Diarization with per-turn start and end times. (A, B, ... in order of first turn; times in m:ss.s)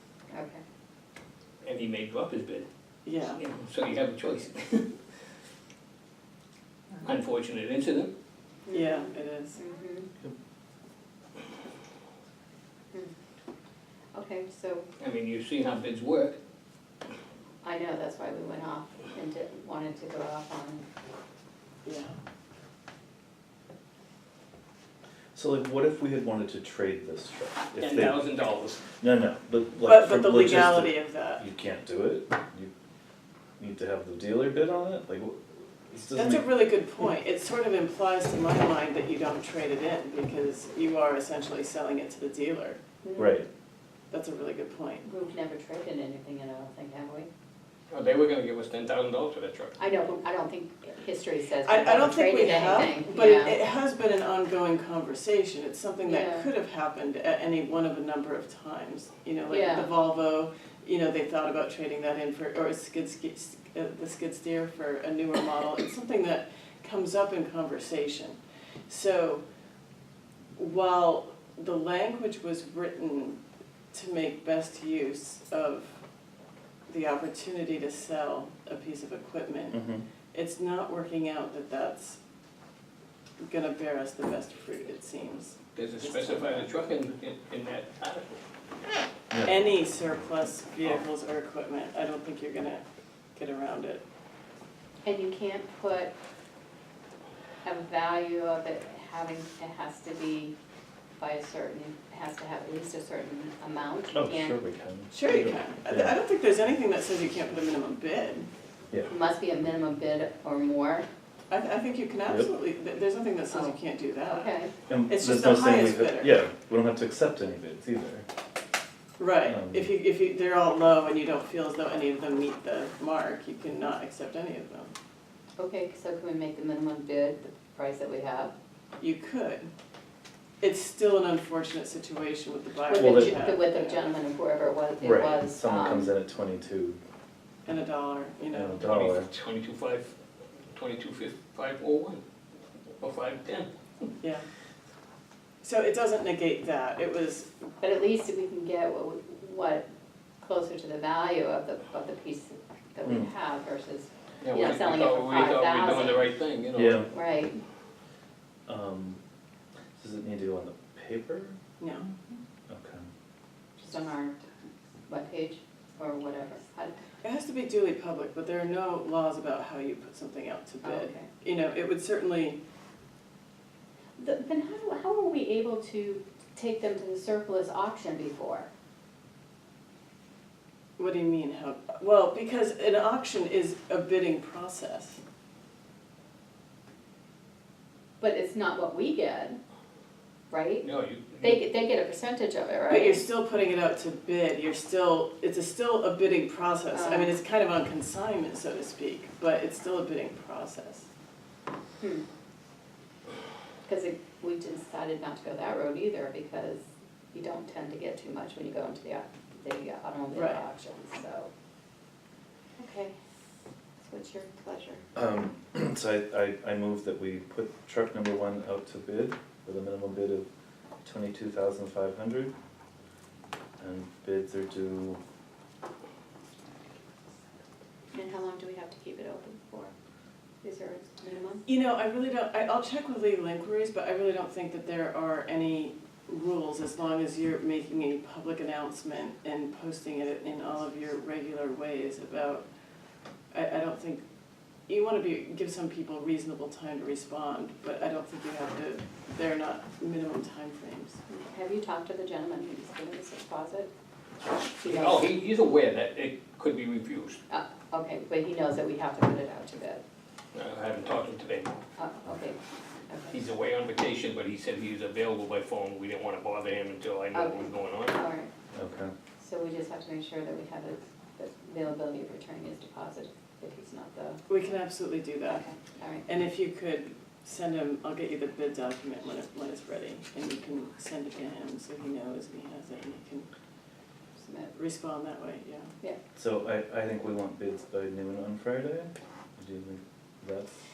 0:00.3-0:00.6 A
0:01.6-0:02.6 B
0:03.0-0:03.4 C
0:03.4-0:04.9 B
0:07.0-0:08.1 B
0:08.6-0:10.1 A
0:08.7-0:09.6 C
0:14.1-0:14.8 A
0:15.0-0:16.4 B
0:17.6-0:20.8 A
0:21.8-0:22.2 C
0:25.4-0:28.3 D
0:27.8-0:28.8 B
0:29.0-0:32.7 D
0:29.9-0:31.4 C
0:33.6-0:36.5 D
0:36.1-0:42.8 C
0:43.0-0:43.4 A
0:43.2-0:43.5 D
0:44.1-0:45.1 C
0:45.0-0:47.3 A
0:47.9-0:49.8 B
0:49.8-0:53.6 A
0:51.6-1:09.4 C
0:56.0-0:56.5 A
0:59.5-0:59.9 A
1:10.6-1:13.4 C
1:13.9-1:16.0 C
1:16.9-1:22.2 C
1:19.7-1:20.0 D
1:23.4-1:25.6 C
1:25.7-1:28.4 B
1:26.1-1:26.5 C
1:29.3-1:29.7 D
1:29.4-1:32.8 C
1:33.4-1:34.0 C
1:35.0-1:36.1 A
1:37.6-1:40.5 A
1:41.2-1:44.6 A
1:44.1-1:46.2 D
1:45.1-1:48.5 C
1:49.1-1:51.1 A
1:51.5-1:54.5 C
1:54.2-1:54.7 A
1:54.9-1:58.2 D
1:55.1-1:56.4 C
1:59.2-2:04.9 C
1:59.4-1:59.9 D
2:05.6-2:08.5 A
2:09.0-2:09.7 C
2:10.6-2:14.1 C
2:12.9-2:16.1 A
2:12.9-2:13.4 D
2:15.0-2:17.0 D
2:17.7-2:18.8 C
2:18.5-2:19.3 D
2:18.8-2:20.1 B
2:20.7-2:22.2 B
2:23.0-2:23.7 B
2:24.2-2:24.5 C
2:25.6-2:27.5 C
2:27.8-2:29.8 A
2:30.4-2:36.3 A
2:33.0-2:33.3 D
2:34.4-2:37.0 B
2:36.8-2:37.1 D
2:37.1-2:37.6 A
2:38.7-2:39.2 D
2:40.0-2:41.6 D
2:41.8-2:42.1 C
2:42.7-2:43.1 D
2:43.8-2:44.4 A
2:45.1-2:47.0 A
2:47.2-2:52.6 C
2:50.8-2:51.3 A
2:54.2-2:58.7 A
3:01.0-3:05.2 C
3:08.2-3:09.6 A
3:10.5-3:13.2 A
3:10.8-3:11.7 B
3:12.9-3:21.1 C
3:16.9-3:17.4 A
3:22.0-3:22.2 A
3:23.8-3:31.5 A
3:30.3-3:30.6 C
3:32.8-3:33.1 A
3:34.0-3:35.0 A
3:35.1-3:40.5 D
3:41.0-3:42.5 D
3:43.8-3:45.2 D
3:48.1-3:49.9 A
3:50.6-3:51.6 A
3:51.7-4:02.6 C
4:03.5-4:04.2 C
4:04.9-4:11.2 C
4:11.3-4:13.9 A
4:14.8-4:15.3 A
4:14.8-4:17.4 B
4:17.5-4:20.0 A
4:20.5-4:21.8 B
4:22.0-4:23.4 A
4:23.3-4:28.2 B
4:27.3-4:28.5 A
4:28.7-4:29.1 D
4:29.4-4:34.4 A
4:34.5-4:35.7 C
4:35.5-4:36.2 A
4:36.2-4:43.5 C
4:44.4-4:44.7 A
4:44.8-4:45.9 C
4:46.4-4:50.7 D